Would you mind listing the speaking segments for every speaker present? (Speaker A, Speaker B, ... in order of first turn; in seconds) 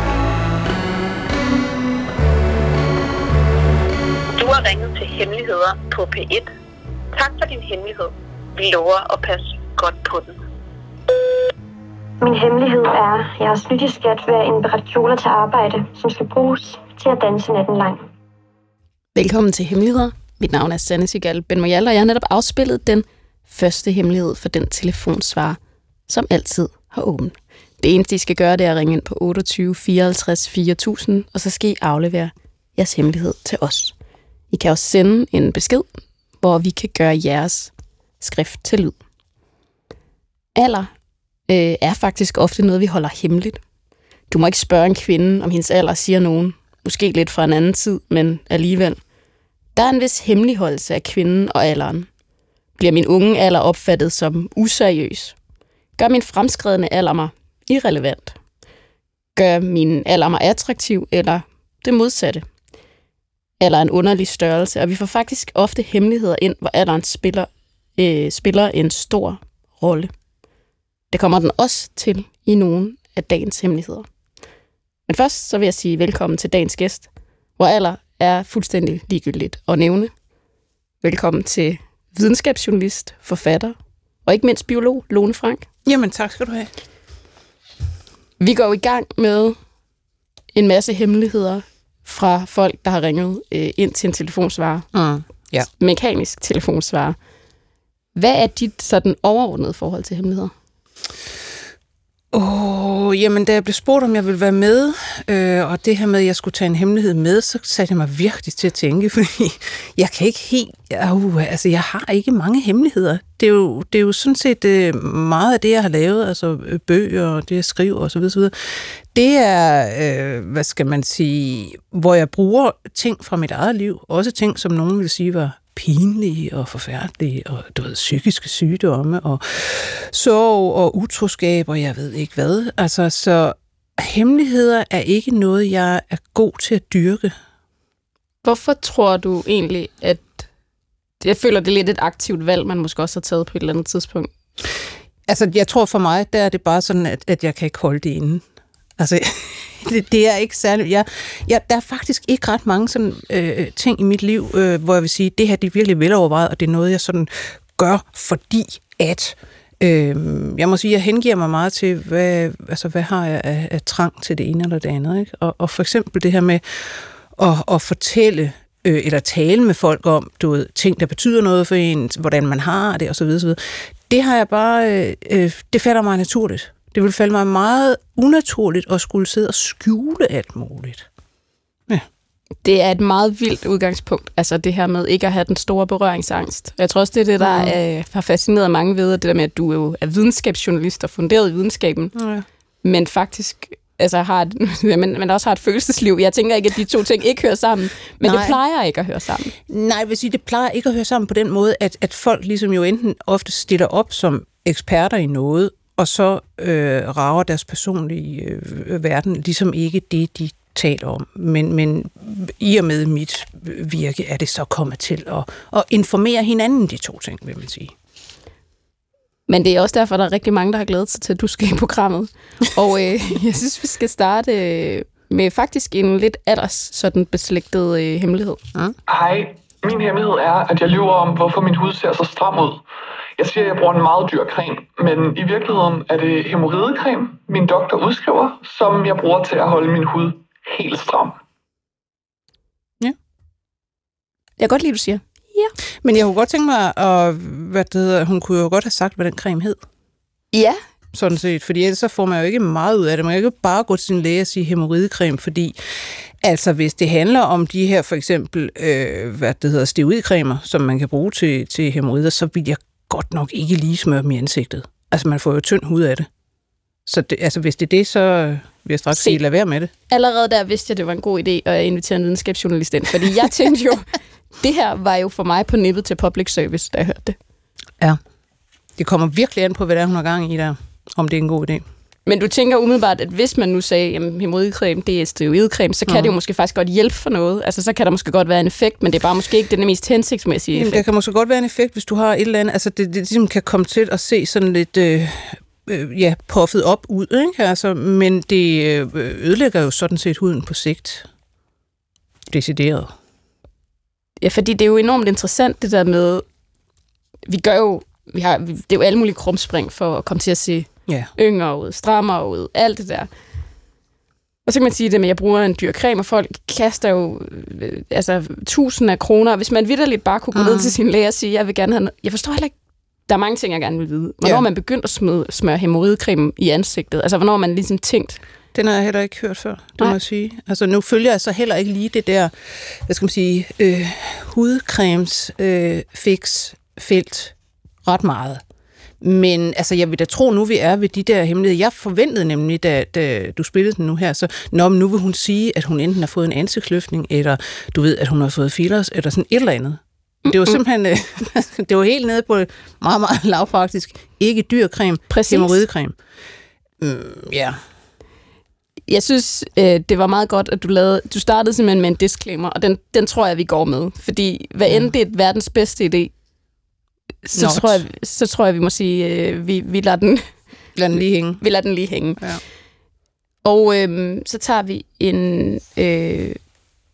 Speaker A: 4.4-6.5, 7.1-10.3
Speaker B: 12.2-18.1
Speaker C: 19.1-33.9, 34.5-39.0, 40.5-40.9, 41.5-43.6, 44.3-49.0, 49.8-52.1, 52.8-55.4, 56.0-58.4, 59.4-62.5, 63.6-70.1, 71.1-74.1, 75.1-80.1, 81.0-85.7, 88.4-89.6, 90.5-94.9, 95.8-97.2, 98.2-100.5, 138.4-140.5, 141.2-144.3, 182.6-192.1, 192.8-199.5, 219.5-228.6, 244.6-245.7, 250.5-250.8, 269.1-269.4, 270.1-277.4, 282.3-291.1, 304.4-306.4, 307.5-313.3, 314.6-322.7, 323.3-328.4, 350.4-350.8, 355.3-355.8, 359.1-366.3, 367.5-370.6, 371.6-372.4, 373.6-376.6
Speaker D: 85.9-86.7, 94.9-95.7, 102.3-137.3, 145.3-148.4, 149.0-181.1, 187.4-187.8, 192.1-192.4, 198.2-198.6, 199.7-217.9, 246.0-249.8, 251.1-266.3, 267.1-269.9, 279.0-281.9, 286.1-286.3, 290.7-301.3, 302.5-303.1, 320.6-320.9, 328.7-338.6, 339.2-356.2, 357.0-357.8, 367.5-368.0, 371.0-371.6
Speaker E: 229.1-232.8, 233.4-241.4